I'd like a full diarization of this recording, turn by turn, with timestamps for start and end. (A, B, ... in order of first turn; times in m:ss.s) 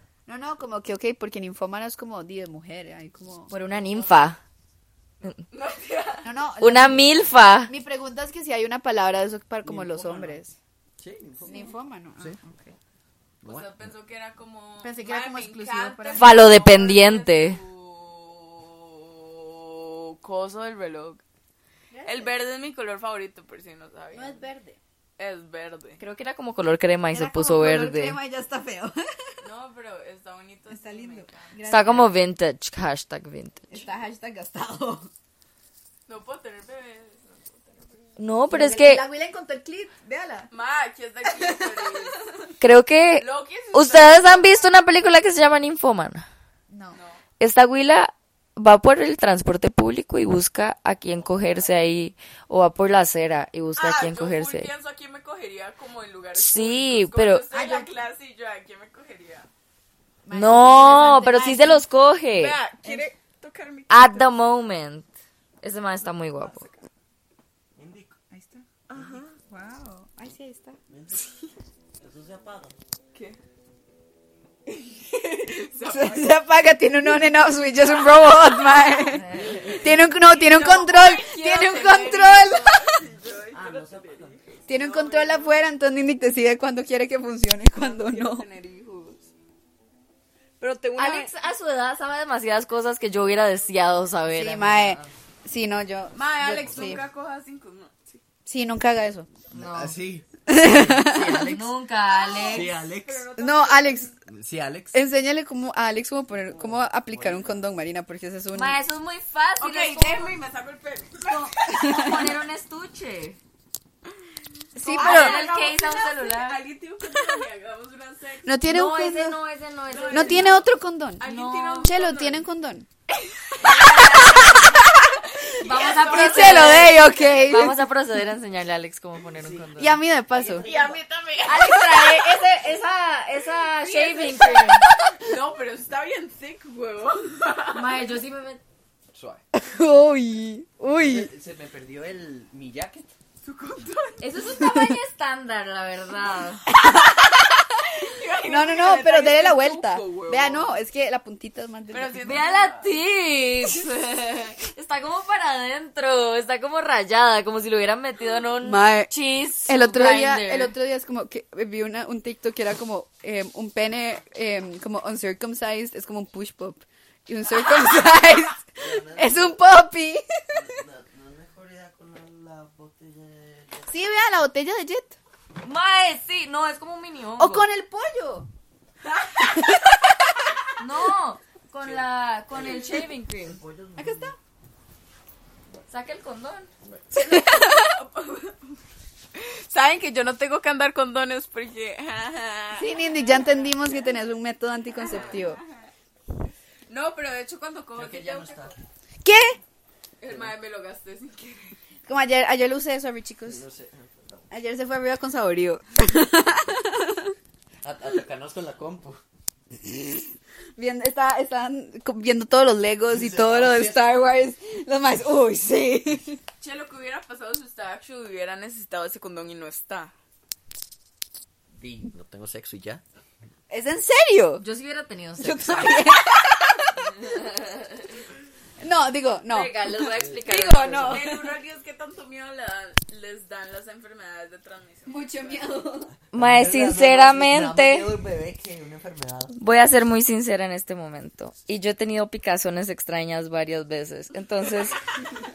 0:00.2-0:03.5 A
0:03.5-0:04.4 B
0:03.9-0:04.2 C
0:05.5-0:06.3 C
0:06.2-0:10.5 A
0:06.6-0:07.7 B
0:09.6-0:10.4 D
0:11.0-0:11.6 D
0:11.4-0:12.7 A
0:13.4-0:13.8 D
0:13.4-0:21.2 C
0:14.8-0:16.5 A
0:16.1-0:17.6 B
0:21.9-0:22.4 A
0:22.0-0:24.4 C
0:24.1-0:24.8 A
0:25.2-0:26.0 C
0:26.0-0:28.2 B
0:27.1-0:29.1 A
0:29.4-0:31.6 C
0:30.7-0:32.1 A
0:31.7-0:33.8 B
0:33.7-0:35.1 A
0:36.1-0:38.1 C
0:38.2-0:39.0 B
0:38.5-0:40.5 A
0:40.5-0:42.3 C
0:41.2-0:42.1 A
0:42.6-0:46.2 B
0:43.2-0:44.6 C
0:46.7-0:47.0 A
0:46.9-0:47.2 C
0:47.4-0:54.7 B
0:53.8-0:59.5 C
0:56.3-0:57.4 B
0:57.5-0:57.9 A
1:00.2-1:01.8 A
1:00.3-1:02.6 B
1:02.3-1:04.3 C
1:03.9-1:05.1 B
1:05.6-1:06.6 B
1:06.3-1:06.8 C
1:07.8-1:08.1 E
1:08.3-1:10.8 A
1:08.9-1:09.4 C
1:10.9-1:11.3 E
1:12.0-1:12.8 E
1:15.1-1:16.4 C
1:15.8-1:23.0 A
1:17.8-1:19.0 C
1:19.1-1:19.8 B
1:19.5-1:25.6 C
1:23.5-1:24.6 E
1:24.7-1:28.4 A
1:27.7-1:29.3 C
1:30.6-1:31.3 C
1:30.9-1:35.0 B
1:34.3-1:37.0 A
1:34.8-1:35.1 D
1:36.1-1:38.2 C
1:38.4-1:39.3 A
1:39.5-1:40.0 B
1:39.5-1:41.7 D
1:40.5-1:41.4 A
1:41.4-1:42.7 B
1:42.1-1:44.1 C
1:42.5-1:43.3 D
1:43.4-1:44.1 A
1:44.3-1:45.0 D
1:44.9-1:48.8 A
1:46.5-1:47.6 D
1:48.5-1:50.4 B
1:49.6-1:52.0 C
1:51.2-1:52.3 A
1:51.7-1:53.4 B
1:54.7-1:55.4 A
1:54.8-1:56.6 B
1:54.8-1:58.6 C
1:58.4-1:59.4 A
1:58.6-2:00.6 B
1:59.9-2:02.4 C
2:00.1-2:01.2 A
2:01.2-2:01.9 B
2:01.8-2:02.9 A
2:03.6-2:04.8 C
2:03.6-2:04.8 B
2:03.7-2:05.2 A
2:05.5-2:07.2 C
2:05.6-2:10.0 B
2:05.8-2:07.8 A
2:09.2-2:09.7 E
2:09.8-2:10.7 A
2:10.3-2:11.0 E
2:10.6-2:12.4 C
2:11.4-2:14.9 B
2:13.5-2:18.0 C
2:17.7-2:18.6 B
2:19.1-2:19.4 D
2:19.5-2:21.3 A
2:20.9-2:23.1 D
2:23.4-2:24.3 C
2:24.2-2:26.6 B
2:24.6-2:24.9 A
2:26.7-2:27.9 A
2:28.0-2:30.8 C
2:28.4-2:32.4 A
2:31.9-2:32.9 C
2:32.2-2:40.7 B
2:38.6-2:39.1 A
2:39.6-2:50.7 A
2:48.8-2:49.6 E
2:50.5-2:53.9 E
2:53.9-2:55.2 A
2:55.6-2:57.7 B
2:57.4-2:58.5 A
2:59.4-3:00.1 A
3:00.8-3:03.6 B
3:02.6-3:02.9 E
3:03.6-3:04.2 E
3:03.6-3:04.3 D
3:04.0-3:04.3 A
3:05.9-3:06.7 B
3:07.1-3:08.0 A
3:07.3-3:08.7 C
3:09.3-3:13.9 C
3:12.7-3:15.6 A
3:15.0-3:15.6 C
3:16.9-3:18.7 C
3:18.0-3:18.7 D
3:19.2-3:19.6 A
3:20.2-3:21.8 C
3:22.0-3:23.6 A
3:23.4-3:24.5 D
3:24.5-3:27.3 A
3:27.8-3:29.2 D
3:30.8-3:36.4 A
3:33.1-3:34.0 D
3:36.6-3:40.1 C
3:41.8-3:43.0 D
3:43.7-3:44.6 A
3:44.6-3:46.0 B
3:45.4-3:47.0 A
3:47.2-3:48.1 B
3:48.8-3:51.5 A
3:49.5-3:51.4 B
3:50.9-3:55.6 C
3:55.1-3:56.1 A
3:56.3-3:58.1 B
3:56.3-3:59.5 D
3:59.6-4:05.0 B